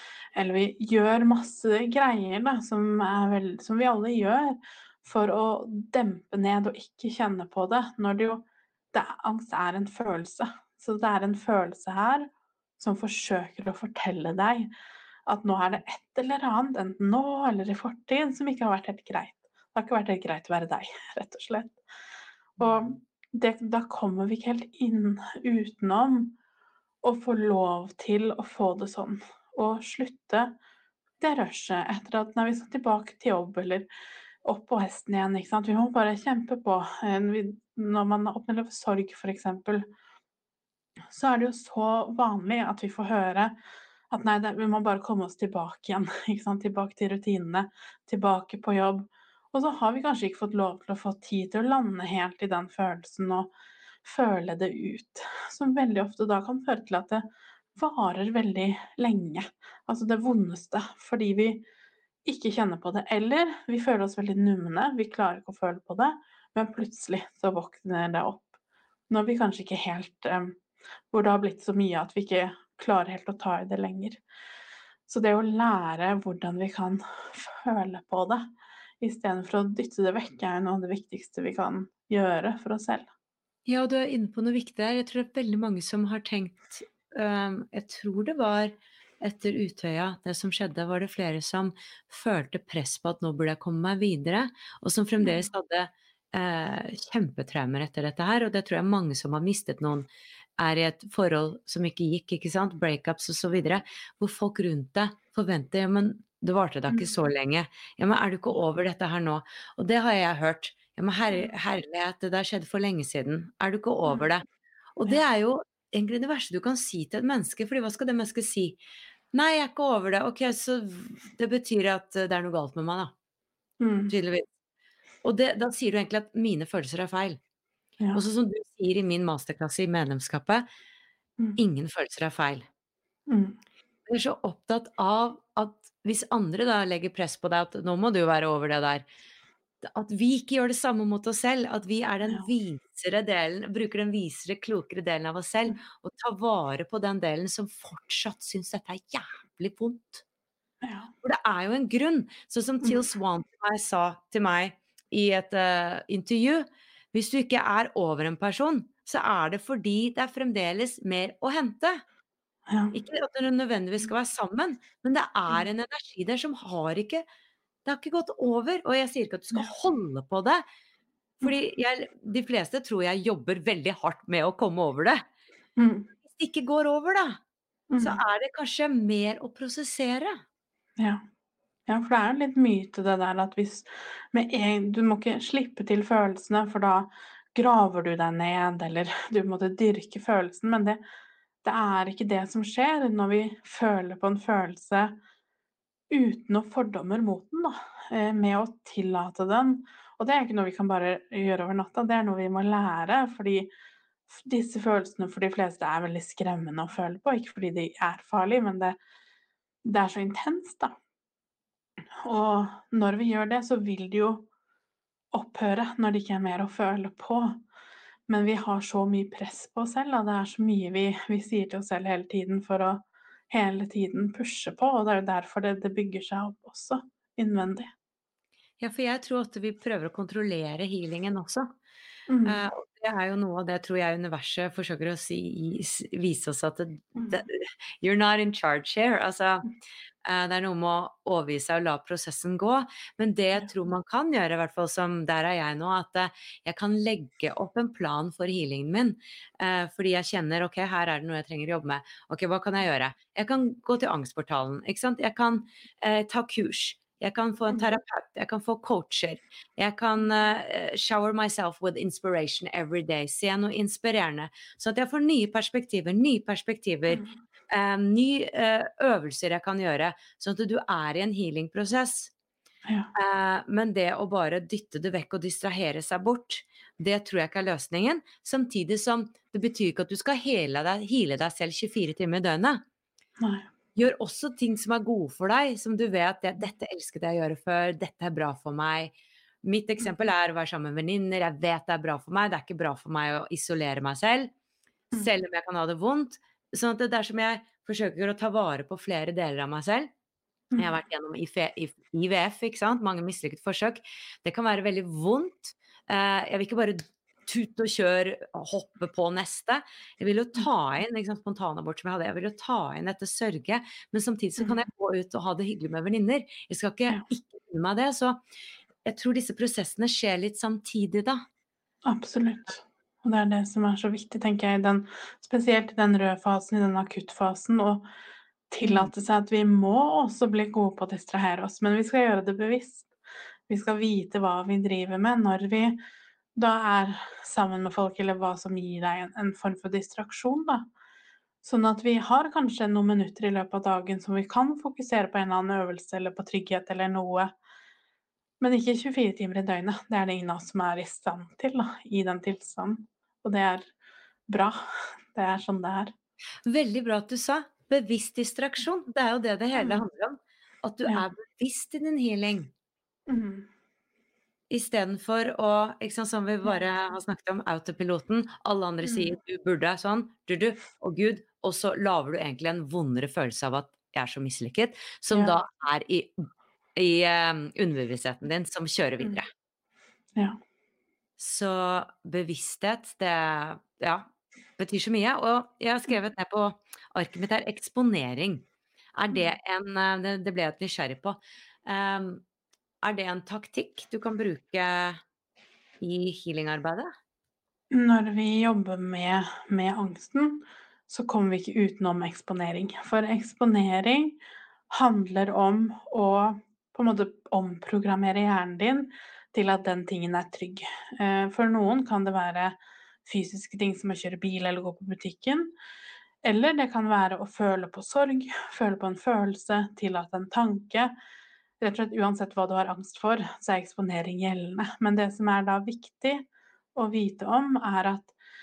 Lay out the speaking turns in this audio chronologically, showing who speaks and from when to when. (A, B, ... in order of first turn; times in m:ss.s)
0:00.4-0:14.7 A
0:15.3-0:21.8 A
0:22.6-0:26.4 A
0:22.6-0:22.9 B
0:27.0-0:30.5 A
0:31.2-0:33.9 A
0:34.4-0:39.9 A
0:41.1-0:43.6 A
0:44.1-0:53.5 A
0:54.0-1:01.6 A
1:02.2-1:08.5 A
1:09.1-1:10.6 A
1:11.1-1:14.2 A
1:15.1-1:18.5 A
1:19.0-1:23.1 A
1:23.6-1:40.1 B
1:35.2-1:35.4 A
1:40.6-1:54.4 B
1:55.0-1:58.8 B
1:59.3-2:03.1 B
2:03.8-2:04.1 A
2:04.1-2:04.4 B
2:05.2-2:07.4 B
2:08.1-2:10.6 B
2:11.6-2:12.6 B
2:13.3-2:13.6 A
2:14.1-2:19.0 B
2:19.8-2:30.2 B
2:30.8-2:31.1 A
2:31.2-2:42.0 B
2:42.7-2:43.0 A
2:42.9-2:47.2 B
2:47.8-2:50.6 B
2:51.4-2:55.2 B
2:55.8-2:56.1 A
2:56.3-2:57.4 B
2:57.9-2:58.2 A
2:58.0-3:00.4 B
3:01.0-3:01.2 A
3:01.9-3:11.0 A
3:11.6-3:15.2 A
3:16.1-3:23.7 A
3:24.3-3:29.0 A
3:29.8-3:30.9 A
3:32.2-3:34.5 A
3:35.3-3:37.6 A
3:38.3-3:47.9 A
3:48.8-3:51.7 B
3:52.3-3:52.6 A
3:52.4-3:59.7 B
3:57.2-3:57.4 A
4:00.2-4:32.3 B
4:27.1-4:27.4 A
4:32.8-4:33.1 A
4:33.1-4:42.8 B
4:43.4-4:43.7 A
4:44.0-4:54.5 B
4:55.1-5:00.1 B
5:00.8-5:18.4 B
5:19.0-5:21.4 B
5:22.0-5:28.1 A
5:28.7-5:33.1 A
5:28.8-5:29.1 B
5:33.7-5:36.0 A
5:36.6-5:40.9 A
5:41.6-5:47.5 A
5:48.6-5:53.9 A
5:54.5-5:56.1 A
5:56.6-6:02.7 B
5:59.8-6:00.0 A
6:03.3-6:03.7 A
6:04.7-6:19.5 B
6:09.0-6:09.3 A
6:21.4-6:28.6 B
6:29.2-6:32.4 B
6:33.0-6:35.2 B
6:36.0-6:37.1 B
6:37.9-6:44.4 A
6:44.9-6:55.7 A
6:56.4-7:01.1 A
7:01.8-7:08.3 A